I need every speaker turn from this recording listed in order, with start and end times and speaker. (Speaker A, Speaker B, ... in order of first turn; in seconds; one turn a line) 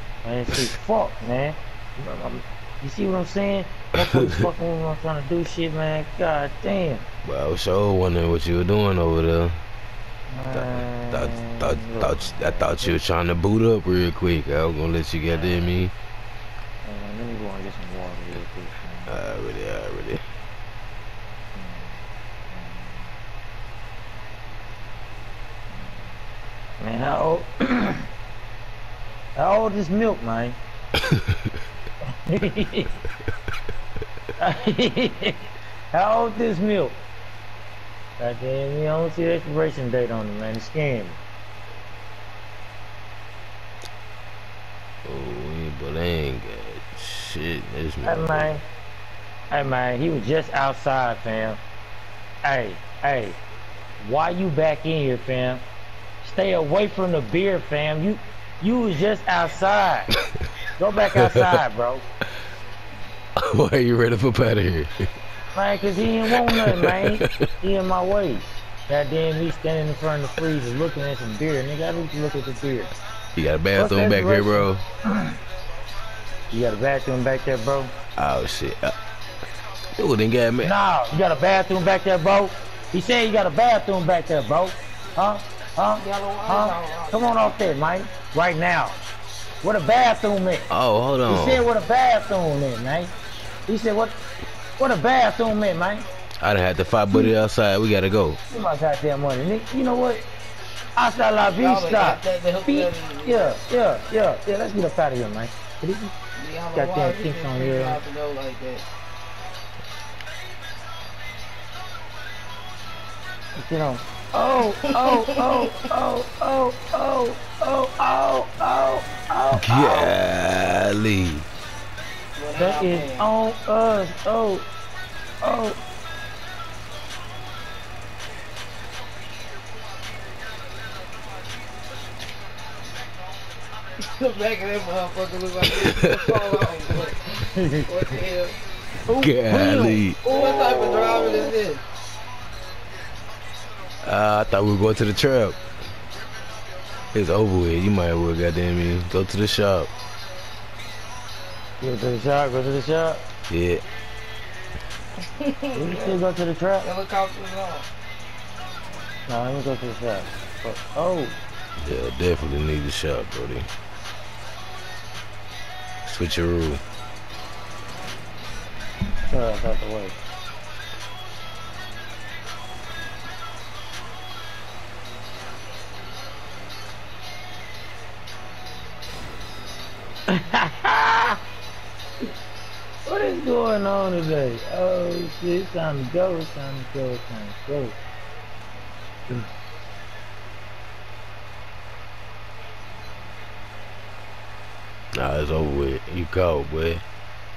Speaker A: 0.2-7.0
Speaker B: 7.2-9.6
Speaker A: 10.3-13.0
Speaker B: 10.5-15.9
Speaker A: 15.3-15.8
Speaker A: 16.8-19.1
Speaker B: 19.1-20.2
Speaker A: 21.5-23.1
Speaker A: 25.7-26.1
Speaker A: 26.8-28.0
Speaker A: 29.3-30.6
Speaker A: 32.2-32.9
Speaker A: 34.4-35.4
Speaker A: 35.9-37.0
Speaker A: 38.2-41.2
Speaker B: 45.0-48.6
Speaker A: 48.0-48.6
Speaker A: 49.5-51.6
Speaker A: 52.4-53.4
Speaker A: 54.0-55.6
Speaker A: 56.2-60.1
Speaker A: 60.8-62.0
Speaker B: 63.4-64.9
Speaker A: 65.5-72.9
Speaker B: 66.3-67.2
Speaker B: 73.4-74.8
Speaker A: 73.8-75.3
Speaker A: 76.5-77.9
Speaker B: 78.2-78.9
Speaker B: 79.9-80.7
Speaker A: 80.6-89.0
Speaker C: 86.0-87.2
Speaker A: 89.6-90.6
Speaker B: 90.7-91.7
Speaker A: 91.2-93.1
Speaker A: 93.7-94.2
Speaker A: 94.8-96.1
Speaker B: 96.4-98.4
Speaker A: 98.5-100.2
Speaker A: 101.0-106.1
Speaker C: 101.4-103.6
Speaker C: 106.4-108.9
Speaker A: 106.7-108.0
Speaker A: 113.6-120.1
Speaker C: 114.8-115.8
Speaker B: 119.5-121.4
Speaker C: 122.4-123.3
Speaker A: 122.6-124.7
Speaker A: 125.4-125.8
Speaker C: 134.1-138.6
Speaker B: 135.8-136.5
Speaker A: 137.5-137.9
Speaker A: 139.1-141.6
Speaker B: 139.2-140.2
Speaker C: 140.2-141.8
Speaker B: 144.0-145.6
Speaker B: 147.1-149.9
Speaker A: 151.8-153.2
Speaker B: 153.5-153.8
Speaker C: 155.4-156.2
Speaker A: 155.8-156.9
Speaker C: 156.8-157.9
Speaker A: 159.2-161.4
Speaker B: 161.8-163.7
Speaker B: 166.1-166.8
Speaker A: 169.2-170.2
Speaker A: 180.3-181.4
Speaker A: 183.1-188.0
Speaker B: 195.1-197.0